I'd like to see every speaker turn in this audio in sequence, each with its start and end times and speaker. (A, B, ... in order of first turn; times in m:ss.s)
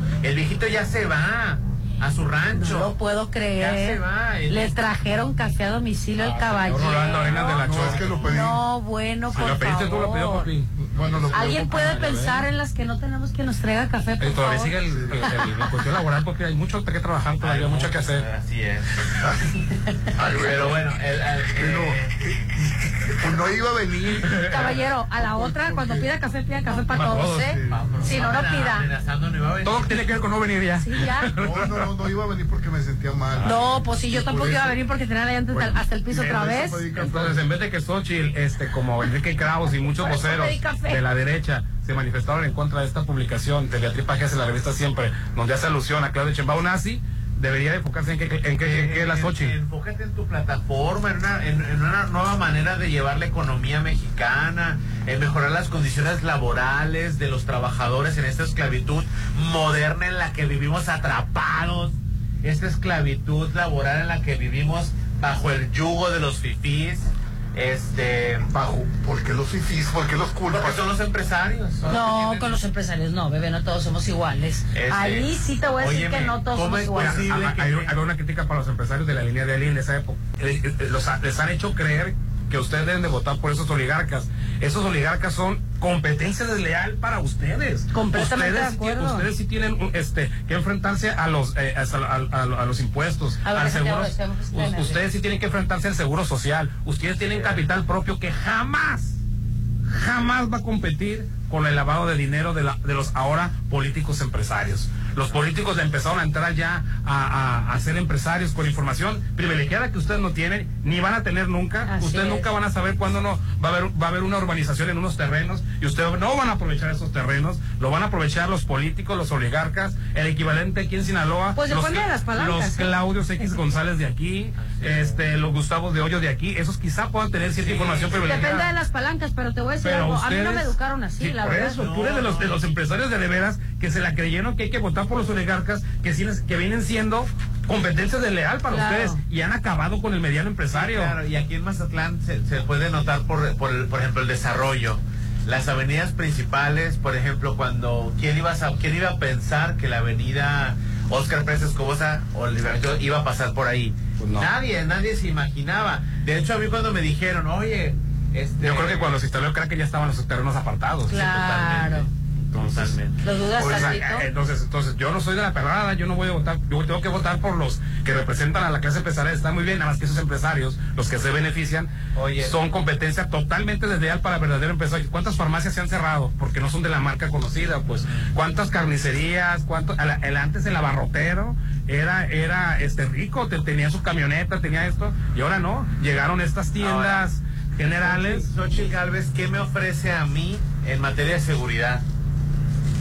0:00.2-0:03.0 A
0:02.5-0:07.7 B
0:03.5-0:04.9 A
0:06.2-0:08.3 C
0:07.6-0:08.6 D
0:07.7-0:08.3 A
0:08.3-0:10.5 B
0:09.3-0:12.4 C
0:10.7-0:12.0 D
0:11.3-0:15.4 B
0:14.2-0:18.2 C
0:17.4-0:19.1 A
0:20.2-0:22.2 A
0:21.6-0:22.1 D
0:23.2-0:26.1 D
0:24.2-0:24.7 C
0:24.5-0:28.9 B
0:26.8-0:27.6 C
0:27.2-0:27.8 D
0:27.7-0:30.2 A
0:29.6-0:31.9 C
0:30.8-0:31.3 B
0:31.3-0:34.8 D
0:33.4-0:33.8 C
0:33.4-0:36.9 B
0:35.5-0:37.4 D
0:36.2-0:49.5 C
0:40.0-0:41.0 B
0:48.6-1:08.5 A
1:08.4-1:10.8 D
1:10.5-1:12.6 A
1:11.9-1:17.3 B
1:14.7-1:17.9 A
1:17.0-1:39.2 C
1:27.9-1:29.3 B
1:33.4-1:35.0 B
1:39.9-2:08.7 C
1:51.9-1:52.5 B
2:01.6-2:02.9 B
2:04.6-2:05.2 A
2:07.6-2:08.5 A
2:08.2-2:11.8 B
2:09.8-2:21.1 C
2:11.4-2:12.6 A
2:18.7-2:19.2 B
2:20.7-2:39.2 A
2:34.2-2:34.5 C
2:38.6-2:41.3 C
2:41.1-2:42.1 B
2:41.1-2:42.1 A
2:42.5-2:42.9 C
2:42.6-2:43.2 A
2:43.2-2:44.2 B
2:43.6-3:08.5 C
2:52.1-2:52.6 A
2:58.0-2:58.3 A
3:06.8-3:07.2 A
3:08.0-3:12.0 A